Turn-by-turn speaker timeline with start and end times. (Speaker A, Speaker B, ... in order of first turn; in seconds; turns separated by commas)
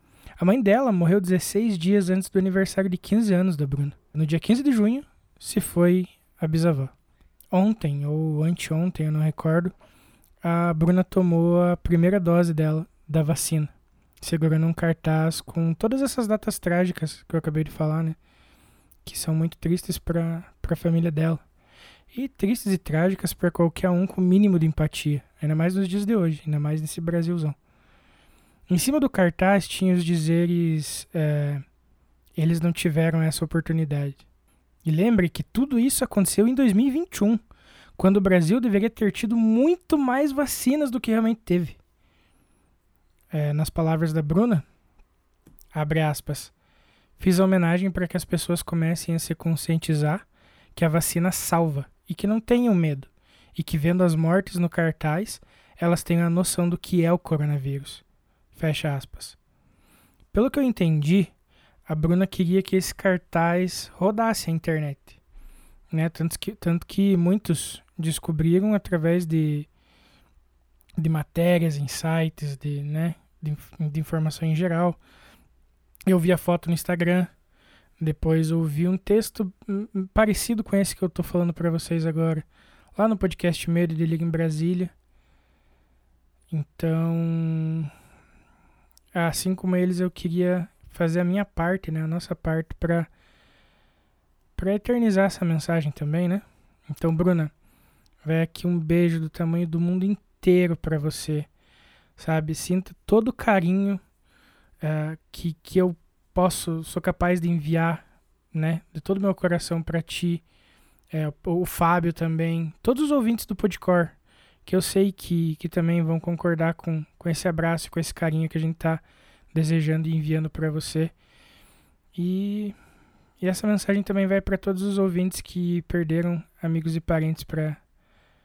Speaker A: 0.4-6.9, Speaker A: 7.5-9.7, Speaker A: 10.4-18.2, Speaker A: 19.0-21.4, Speaker A: 22.1-27.6, Speaker A: 28.7-31.6, Speaker A: 32.4-34.2, Speaker A: 34.8-37.4, Speaker A: 38.0-41.8, Speaker A: 43.3-44.6, Speaker A: 45.7-46.5, Speaker A: 47.2-58.0, Speaker A: 58.5-59.4, Speaker A: 60.3-61.3, Speaker A: 61.9-65.1, Speaker A: 65.9-69.7, Speaker A: 71.0-75.0, Speaker A: 76.1-77.3, Speaker A: 78.0-84.9, Speaker A: 86.5-87.9, Speaker A: 89.1-93.1, Speaker A: 94.5-97.5, Speaker A: 98.2-101.5, Speaker A: 102.2-104.0, Speaker A: 104.8-110.4, Speaker A: 111.1-121.1, Speaker A: 122.2-122.8, Speaker A: 123.4-127.8